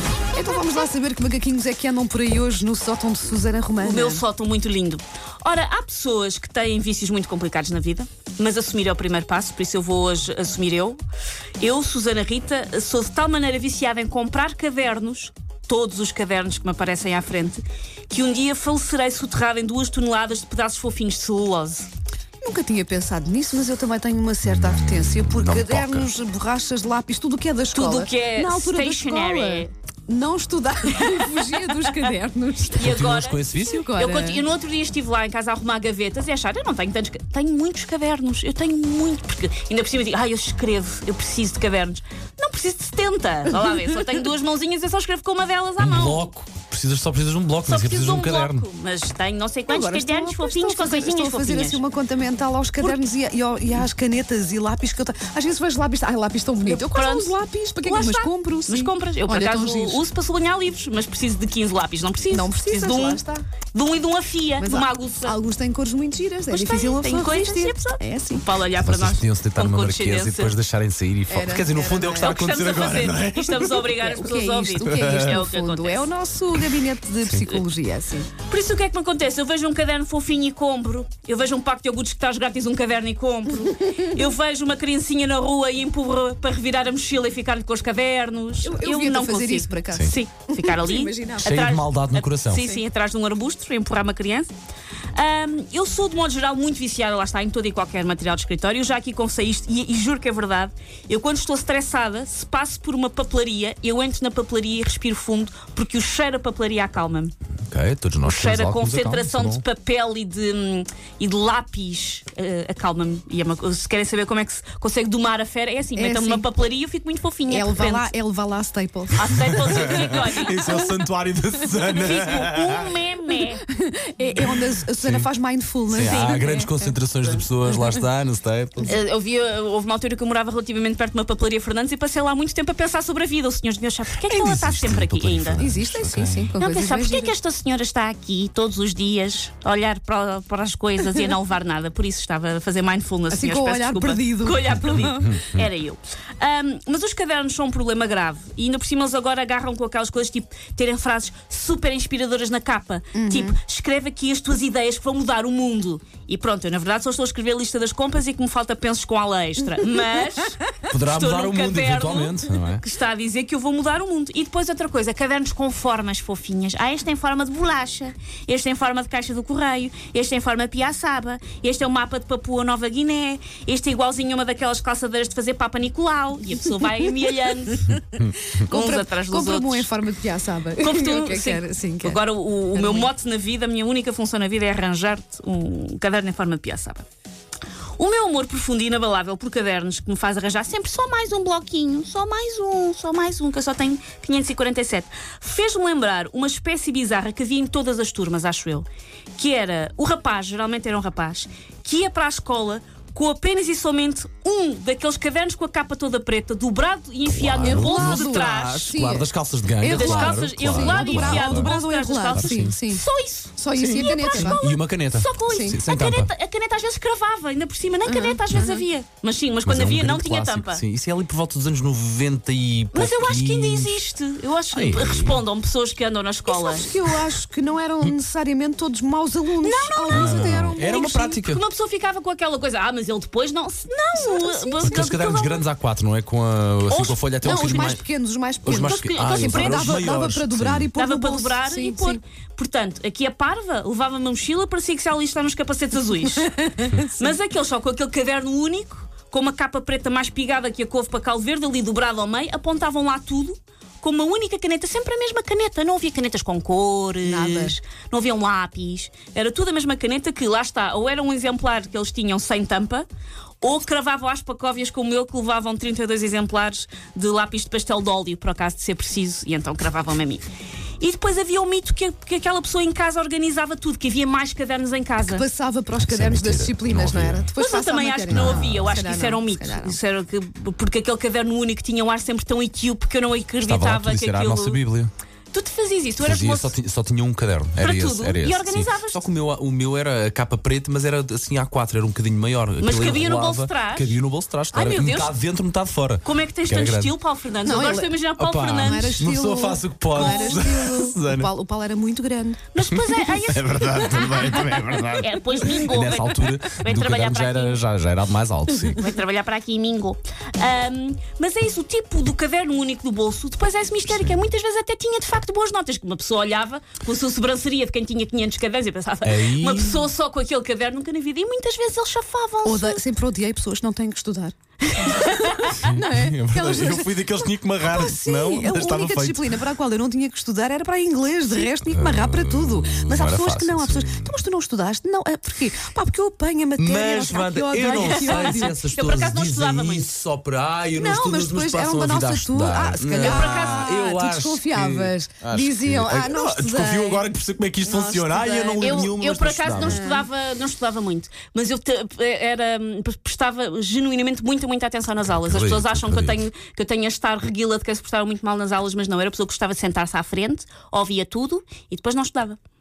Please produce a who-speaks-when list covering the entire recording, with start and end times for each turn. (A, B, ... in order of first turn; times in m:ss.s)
0:00.3-0:04.2 A
0:03.8-0:11.0 B
0:11.6-0:21.9 B
0:22.4-0:33.0 A
0:24.5-0:26.1 C
0:27.7-0:29.7 B
0:31.0-0:32.0 B
0:32.8-0:46.3 B
0:32.8-0:33.9 C
0:33.7-0:34.5 A
0:45.8-0:48.7 C
0:47.7-0:51.8 B
0:49.7-1:00.0 A
0:56.6-1:05.4 B
1:02.3-1:03.4 A
1:04.6-1:08.4 A
1:06.5-1:10.6 B
1:08.8-1:13.7 C
1:11.3-1:12.4 A
1:12.2-1:16.1 B
1:13.6-1:18.3 A
1:14.8-1:15.1 C
1:18.4-1:34.5 B
1:28.6-1:31.6 A
1:31.4-1:32.6 C
1:35.1-1:47.3 B
1:47.7-1:49.6 C
1:48.2-1:58.1 B
1:55.9-1:56.5 A
1:57.5-1:59.4 A
1:59.1-2:00.7 B
1:59.5-2:02.9 C
2:01.8-2:03.7 B
2:03.7-2:07.3 A
2:04.4-2:05.3 C
2:05.9-2:08.9 C
2:06.1-2:06.6 B
2:08.8-2:15.6 B
2:14.2-2:16.6 C
2:15.6-2:17.3 A
2:16.6-2:58.0 B
2:23.3-2:25.1 A
2:24.9-2:25.6 C
2:33.1-2:33.6 A
2:40.9-2:42.8 C
2:58.6-3:03.1 A
2:58.7-2:59.9 B
3:00.8-3:07.1 B
3:08.0-3:28.9 B
3:27.3-3:31.7 C
3:27.6-3:29.3 A
3:29.8-3:33.0 A
3:29.8-3:40.8 B
3:32.3-3:32.8 C
3:33.6-3:34.6 A
3:33.8-3:36.3 C
3:35.4-3:35.8 A
3:38.0-3:38.8 A
3:39.6-3:44.0 C
3:42.9-3:46.9 B
3:44.7-3:45.4 C
3:46.5-3:51.2 A
3:49.6-3:55.6 B
3:50.1-3:51.6 C
3:54.1-3:55.4 A
3:54.8-3:58.0 C
3:56.9-3:58.0 B
3:57.4-4:02.2 A
3:58.6-4:00.1 B
3:58.6-4:00.9 C
4:01.0-4:23.1 B
4:06.5-4:07.4 A
4:17.2-4:17.8 A
4:23.6-4:30.5 B
4:31.0-4:35.4 B
4:35.2-4:40.0 A
4:36.0-4:37.5 C
4:37.6-4:44.8 B
4:38.3-4:39.0 C
4:43.6-4:45.1 C
4:45.5-4:46.8 B
4:46.2-4:57.2 C
4:47.8-4:49.2 B
4:52.8-4:54.2 B
4:54.7-4:55.3 B
4:56.2-4:59.2 B
4:57.6-4:58.2 A
4:58.4-5:01.5 C
4:58.8-5:02.6 A
5:00.2-5:00.7 B
5:02.7-5:07.8 B
5:02.8-5:09.0 C
5:08.9-5:23.0 B
5:19.2-5:20.1 C
5:22.6-5:38.8 A
5:24.9-5:25.8 B
5:25.7-5:29.5 C
5:31.9-5:34.4 C
5:36.8-5:50.0 C
5:37.8-5:40.1 B
5:40.9-5:47.3 A
5:43.2-5:44.0 B
5:47.8-5:49.0 A
5:48.8-6:02.6 B
5:49.8-5:50.3 A
5:55.3-5:56.4 C